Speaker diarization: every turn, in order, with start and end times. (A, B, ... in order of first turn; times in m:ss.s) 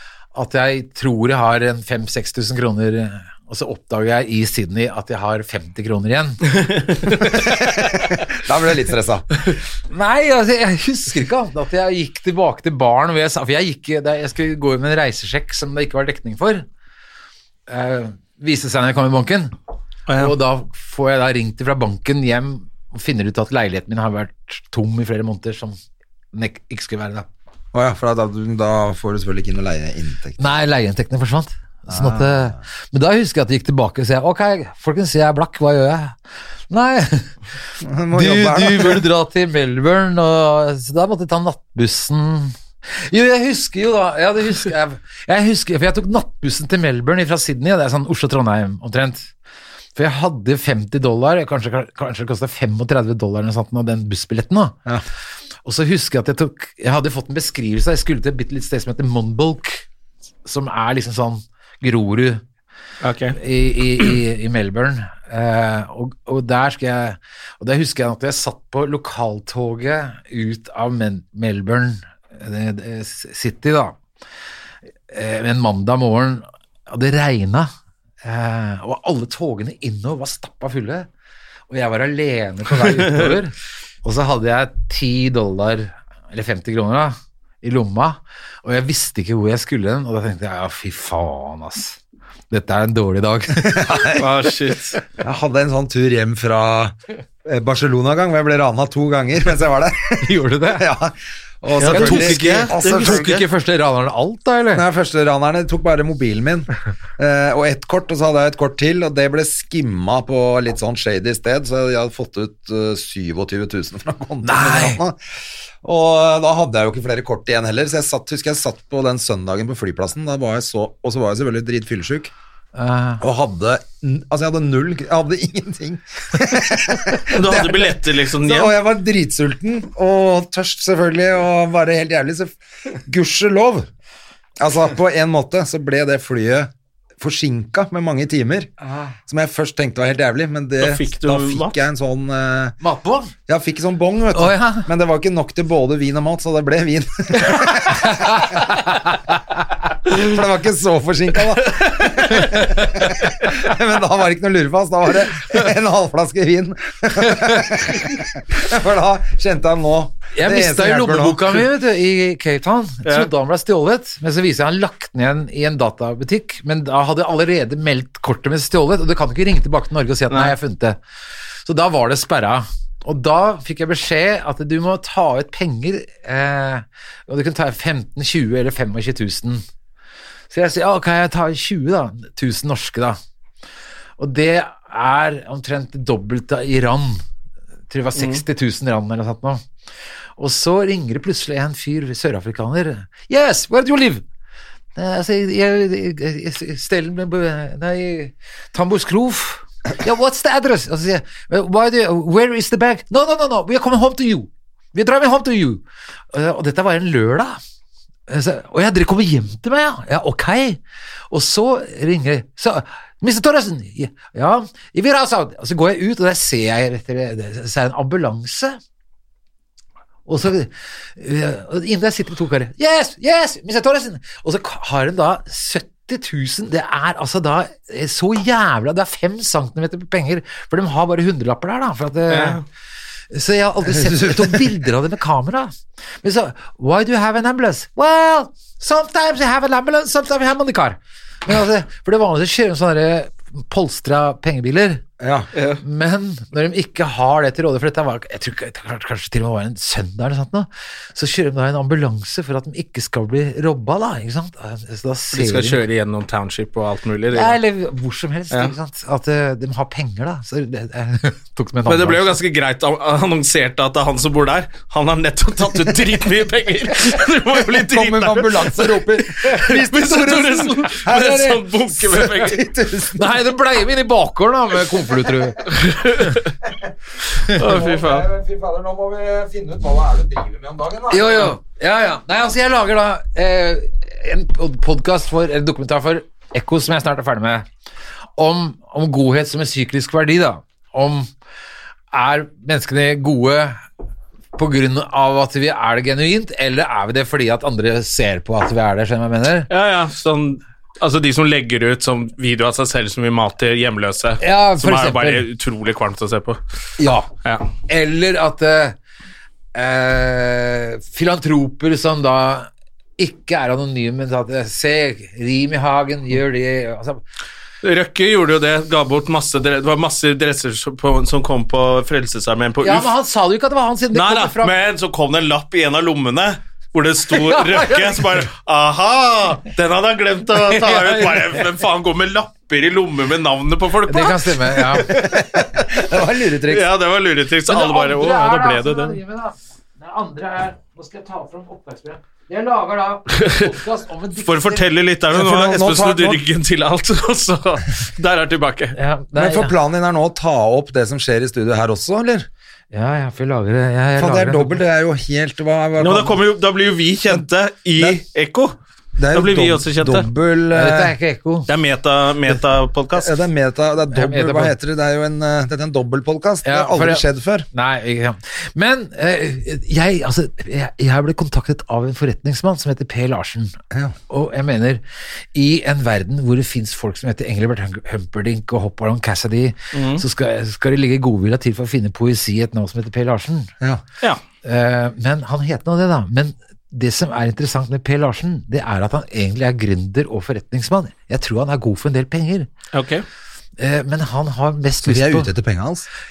0:00.3-0:06.6 A
0:06.7-0:07.2 B
0:07.3-0:09.4 C
0:09.9-0:16.7 A
0:17.7-0:19.5 A
0:20.1-0:20.3 B
0:20.1-0:25.8 A
0:26.3-0:27.3 A
0:27.7-0:30.5 C
0:30.4-0:36.2 A
0:31.9-0:32.6 C
0:36.7-0:37.4 A
0:37.8-0:39.0 C
0:38.1-0:49.3 A
0:50.0-0:54.8 A
0:55.6-0:59.8 A
1:00.5-1:02.4 A
1:03.0-1:03.4 B
1:03.3-1:14.0 A
1:15.1-1:17.7 A
1:18.2-1:21.1 A
1:21.7-1:32.0 A
1:22.9-1:23.3 B
1:32.5-1:34.1 A
1:33.6-1:34.3 C
1:34.2-1:35.0 B
1:35.2-1:43.3 C
1:40.2-1:40.8 A
1:41.8-1:43.4 B
1:41.8-1:44.8 A
1:44.8-1:55.2 C
1:54.4-1:55.0 A
1:55.8-2:02.3 C
2:02.8-2:03.2 A
2:03.2-2:13.9 C
2:07.3-2:08.7 B
2:14.6-2:18.7 C
2:18.8-2:19.1 A
2:19.3-2:22.8 C
2:20.8-2:21.8 B
2:22.8-2:23.3 A
2:23.5-2:28.8 C
2:24.3-2:24.9 A
2:27.9-2:29.4 A
2:30.1-2:41.6 C
2:32.3-2:33.1 A
2:37.3-2:37.7 A
2:40.3-2:51.0 A
2:51.6-2:59.6 A
3:00.5-3:03.2 A
3:04.2-3:07.2 A
3:07.9-3:09.6 A
3:08.2-3:08.4 B
3:10.4-3:14.2 A
3:15.0-3:27.6 A
3:28.3-3:38.8 A
3:40.3-3:52.6 A
3:52.3-3:52.6 B
3:53.3-4:05.0 A
3:54.0-3:54.6 C
4:05.2-4:05.5 C
4:05.6-4:05.8 B
4:05.8-4:15.8 A
4:15.3-4:17.6 B
4:17.3-4:22.4 A
4:21.9-4:32.6 B
4:27.8-4:33.4 C
4:33.2-4:35.7 A
4:35.7-4:36.5 B
4:36.6-4:36.9 C
4:37.5-4:38.3 B
4:37.5-4:41.5 C
4:41.1-4:47.7 A
4:48.4-4:51.3 A
4:52.1-4:53.8 A
4:54.6-4:59.7 A
4:59.7-5:06.6 B
5:04.4-5:05.4 A
5:07.0-5:07.3 A
5:07.4-5:07.7 B
5:07.9-5:09.0 A
5:09.7-5:17.2 A
5:17.8-5:23.1 B
5:22.8-5:24.7 A
5:24.1-5:35.4 B
5:27.3-5:28.4 A
5:30.6-5:31.6 A
5:34.1-5:35.1 A
5:35.1-5:36.9 C
5:36.7-5:39.2 B
5:37.7-5:44.9 A
5:43.4-5:43.6 B
5:44.4-5:49.0 B
5:45.3-5:46.4 C
5:49.0-5:49.7 A
5:49.4-5:52.5 C
5:52.9-5:54.8 A
5:54.2-5:56.4 C
5:56.0-5:58.8 B
5:59.2-6:01.2 C
5:59.3-6:00.3 B
6:00.7-6:01.7 A
6:01.7-6:03.4 B
6:03.2-6:07.7 C
6:04.1-6:04.7 A
6:06.6-6:13.8 A
6:14.3-6:15.0 A
6:15.5-6:23.7 A
6:19.9-6:20.2 B
6:24.6-6:32.7 A
6:32.9-6:33.2 B
6:33.8-6:35.5 A
6:35.0-6:36.1 C